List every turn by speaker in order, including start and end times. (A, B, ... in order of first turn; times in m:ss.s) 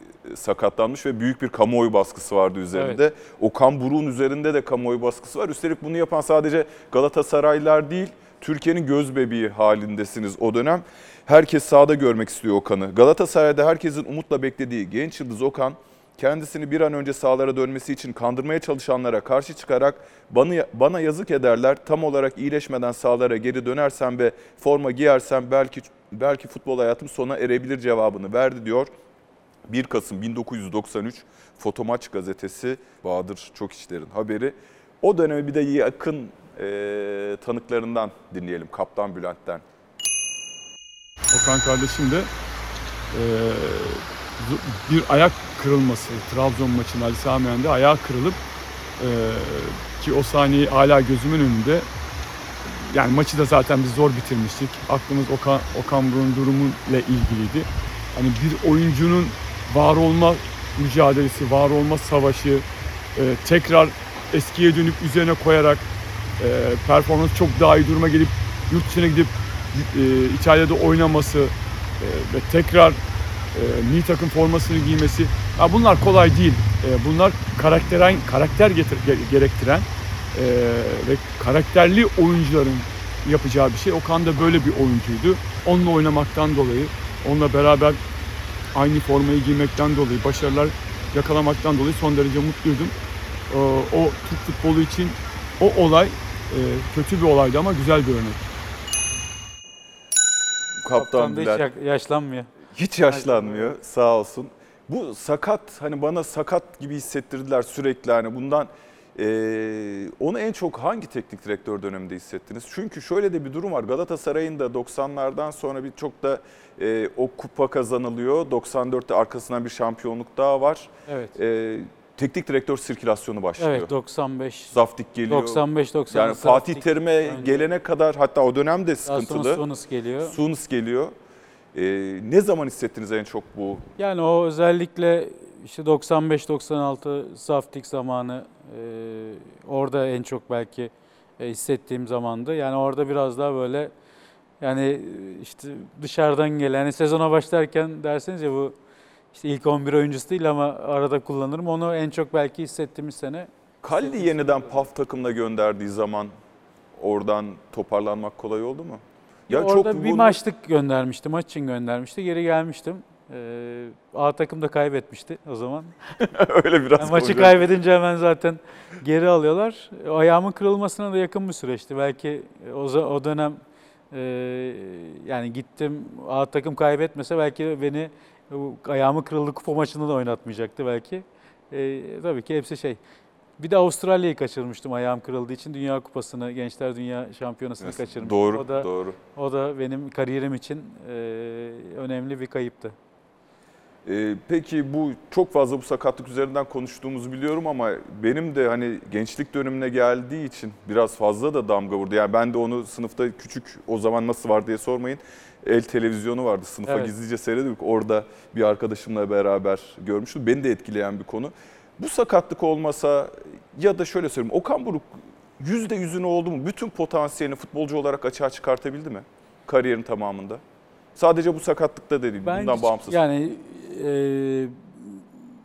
0:00.2-0:28.9 A
0:02.7-0:03.0 B
0:29.7-0:39.6 A
0:41.3-0:42.3 C
0:43.1-0:48.4 C
0:49.0-0:51.9 C
0:52.9-1:05.8 C
1:06.4-1:13.0 C
1:13.5-1:28.0 C
1:28.7-1:32.9 C
1:33.5-1:38.4 C
1:40.8-1:41.6 A
1:40.9-1:42.5 B
1:42.7-2:03.9 A
1:43.1-1:43.7 B
2:01.1-2:01.3 B
2:03.6-2:07.7 B
2:04.7-2:09.6 A
2:09.1-2:10.3 B
2:10.2-2:11.1 A
2:11.7-2:13.8 A
2:14.0-2:23.9 B
2:24.6-2:28.7 B
2:29.3-2:34.8 B
2:33.8-2:36.3 A
2:37.0-2:40.4 A
2:39.5-2:45.9 B
2:46.2-2:47.6 A
2:47.0-2:53.6 B
2:54.1-3:03.0 B
3:03.6-3:12.9 B
3:07.8-3:09.2 A
3:14.0-3:40.6 A
3:26.9-3:27.1 B
3:41.2-3:43.2 A
3:42.4-3:45.2 B